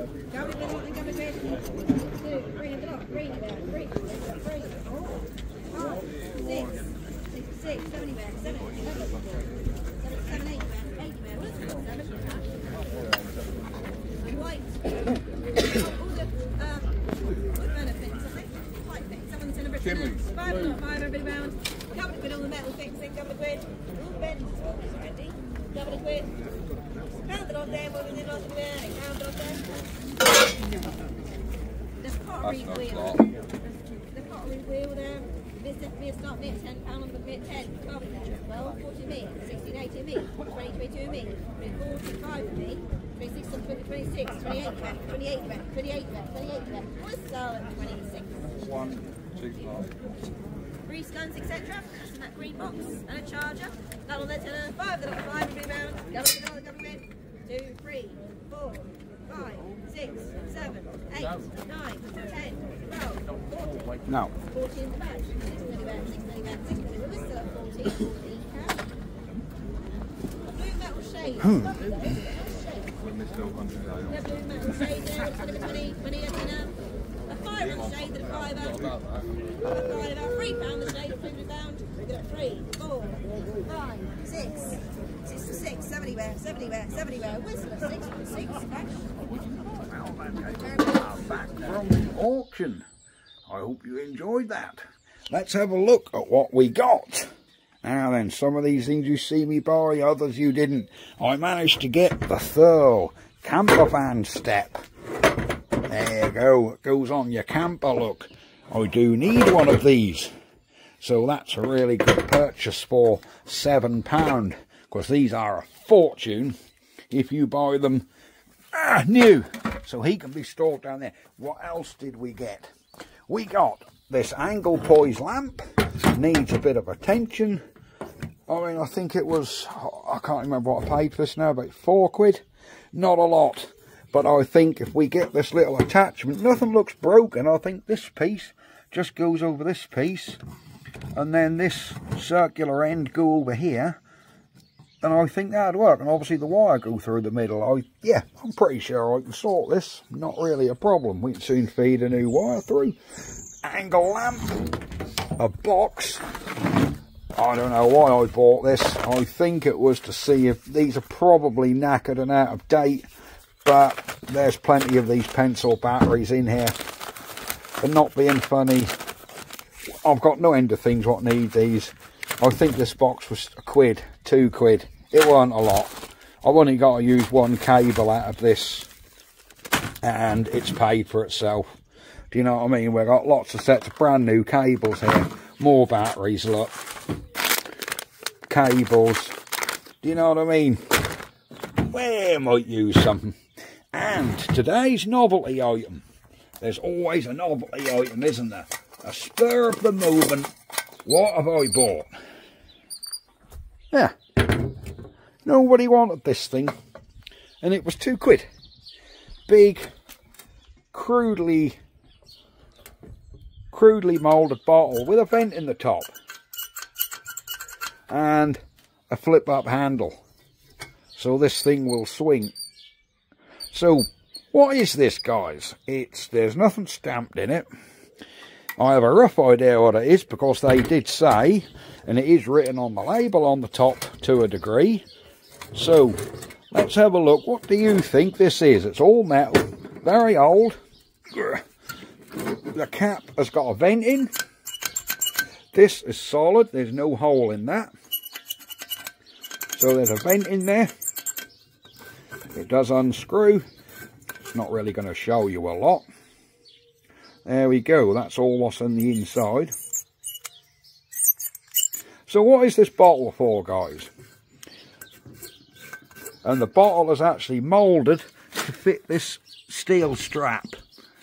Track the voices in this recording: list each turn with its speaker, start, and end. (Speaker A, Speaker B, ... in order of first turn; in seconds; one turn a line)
Speaker A: 0.3-9.2
Speaker A: 10.0-12.4
Speaker A: 14.2-14.8
Speaker A: 15.6-26.3
Speaker B: 19.8-20.2
Speaker A: 27.2-29.6
Speaker A: 32.0-33.2
Speaker B: 32.4-33.3
Speaker A: 34.1-48.5
Speaker B: 48.6-49.9
Speaker A: 50.9-63.8
Speaker C: 64.1-64.3
Speaker A: 64.4-68.8
Speaker A: 70.5-72.9
Speaker C: 71.4-72.2
Speaker B: 73.1-74.1
Speaker A: 74.0-76.7
Speaker A: 77.3-78.9
Speaker B: 77.7-79.1
Speaker A: 79.6-89.1
Speaker C: 89.8-92.8
Speaker C: 93.5-97.3
Speaker C: 97.8-104.8
Speaker C: 105.9-110.3
Speaker C: 111.0-116.5
Speaker C: 117.1-118.0
Speaker C: 118.7-122.7
Speaker C: 123.3-127.6
Speaker C: 128.5-140.4
Speaker C: 141.1-144.0
Speaker C: 145.0-153.0
Speaker C: 153.6-154.7
Speaker C: 155.4-156.2
Speaker C: 157.3-163.1
Speaker C: 163.6-166.9
Speaker C: 167.8-168.9
Speaker C: 170.0-178.9
Speaker C: 180.0-181.8
Speaker C: 182.3-186.7
Speaker C: 188.5-189.3
Speaker C: 190.0-190.8
Speaker C: 191.8-193.4
Speaker C: 193.9-196.0
Speaker C: 196.6-200.5
Speaker C: 201.1-202.1
Speaker C: 205.4-206.7
Speaker C: 207.6-208.5
Speaker C: 209.5-209.9
Speaker C: 210.9-211.8
Speaker C: 213.7-216.1
Speaker C: 218.1-220.2
Speaker C: 221.2-222.5
Speaker C: 223.7-227.7
Speaker C: 228.8-235.0
Speaker C: 235.7-240.8
Speaker C: 241.3-241.6
Speaker C: 242.7-244.3
Speaker C: 245.7-247.9
Speaker C: 249.7-250.9
Speaker C: 252.5-253.6
Speaker C: 254.5-256.1
Speaker C: 257.4-259.7
Speaker C: 262.3-264.1
Speaker C: 266.4-270.8